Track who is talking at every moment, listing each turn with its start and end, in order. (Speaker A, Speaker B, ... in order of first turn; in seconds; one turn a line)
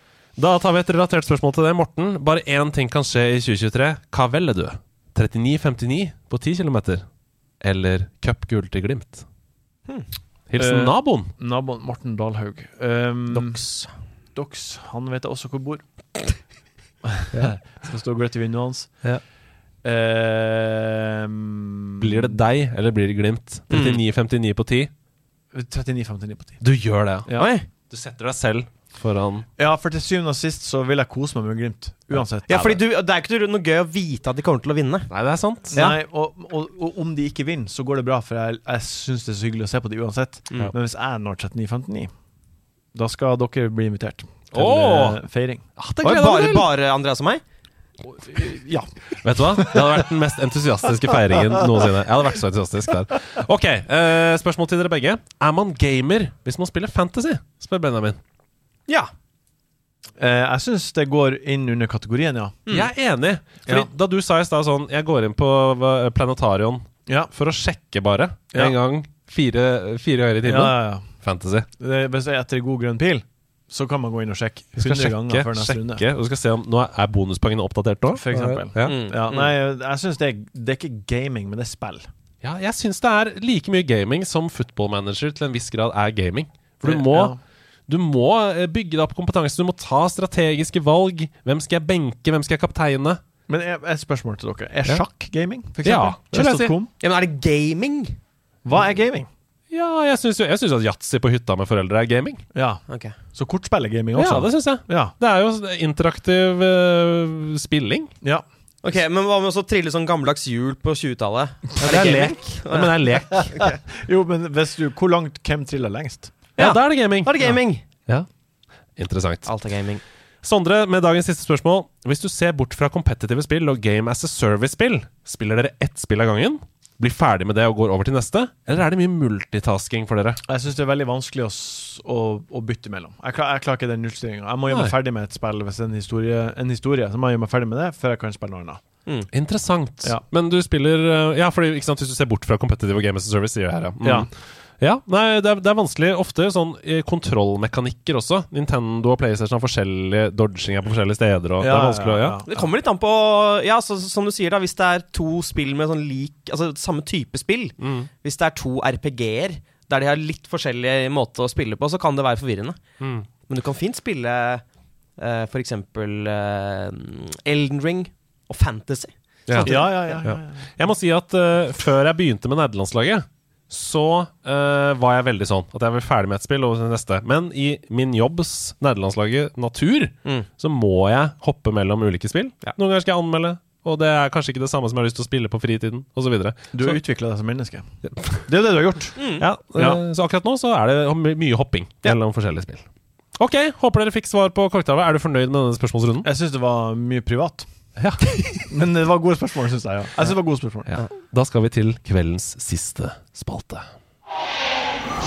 Speaker A: 0.4-7.0
Speaker A: 7.6-9.2
Speaker A: 10.5-11.3
Speaker B: 10.6-13.6
Speaker C: 13.3-13.9
Speaker B: 14.3-15.8
Speaker B: 17.1-18.9
Speaker B: 19.8-22.4
Speaker A: 22.0-24.9
Speaker C: 23.7-24.0
Speaker B: 25.5-26.6
Speaker A: 26.6-27.3
Speaker B: 27.3-27.5
Speaker C: 27.4-27.7
Speaker A: 27.9-29.5
Speaker B: 29.6-32.8
Speaker C: 32.5-35.1
Speaker A: 35.1-35.8
Speaker B: 35.7-42.1
Speaker B: 43.0-45.6
Speaker A: 44.5-45.2
Speaker A: 45.8-46.7
Speaker C: 46.0-47.4
Speaker B: 48.2-48.9
Speaker A: 49.2-58.2
Speaker B: 49.5-50.0
Speaker B: 60.2-62.6
Speaker A: 62.7-71.7
Speaker B: 70.4-71.1
Speaker B: 71.8-76.0
Speaker A: 74.8-79.0
Speaker B: 78.1-82.1
Speaker C: 78.8-79.5
Speaker A: 82.4-87.4
Speaker B: 86.8-87.4
Speaker A: 87.9-93.2
Speaker B: 93.5-96.9
Speaker A: 95.8-96.8
Speaker C: 97.0-98.2
Speaker B: 98.7-99.3
Speaker A: 99.7-102.5
Speaker B: 102.5-102.8
Speaker C: 102.9-103.2
Speaker B: 103.3-105.1
Speaker A: 104.1-108.1
Speaker C: 108.8-113.8
Speaker A: 111.8-113.6
Speaker B: 113.9-116.4
Speaker C: 116.6-117.8
Speaker A: 116.6-118.3
Speaker A: 119.0-119.5
Speaker C: 119.5-120.0
Speaker A: 120.4-130.4
Speaker B: 130.5-138.8
Speaker A: 139.3-152.4
Speaker B: 144.0-144.3
Speaker B: 151.6-152.6
Speaker C: 152.5-162.8
Speaker A: 157.8-158.1
Speaker A: 163.0-163.3
Speaker C: 163.5-164.6
Speaker C: 165.2-169.9
Speaker A: 169.5-187.0
Speaker B: 169.6-170.7
Speaker B: 186.7-187.8
Speaker A: 188.1-188.4
Speaker B: 188.5-189.2
Speaker C: 189.2-189.4
Speaker A: 189.4-192.9
Speaker B: 189.8-190.0
Speaker A: 193.4-196.3
Speaker B: 196.2-197.7
Speaker A: 198.0-198.5
Speaker B: 198.7-200.9
Speaker A: 200.9-203.9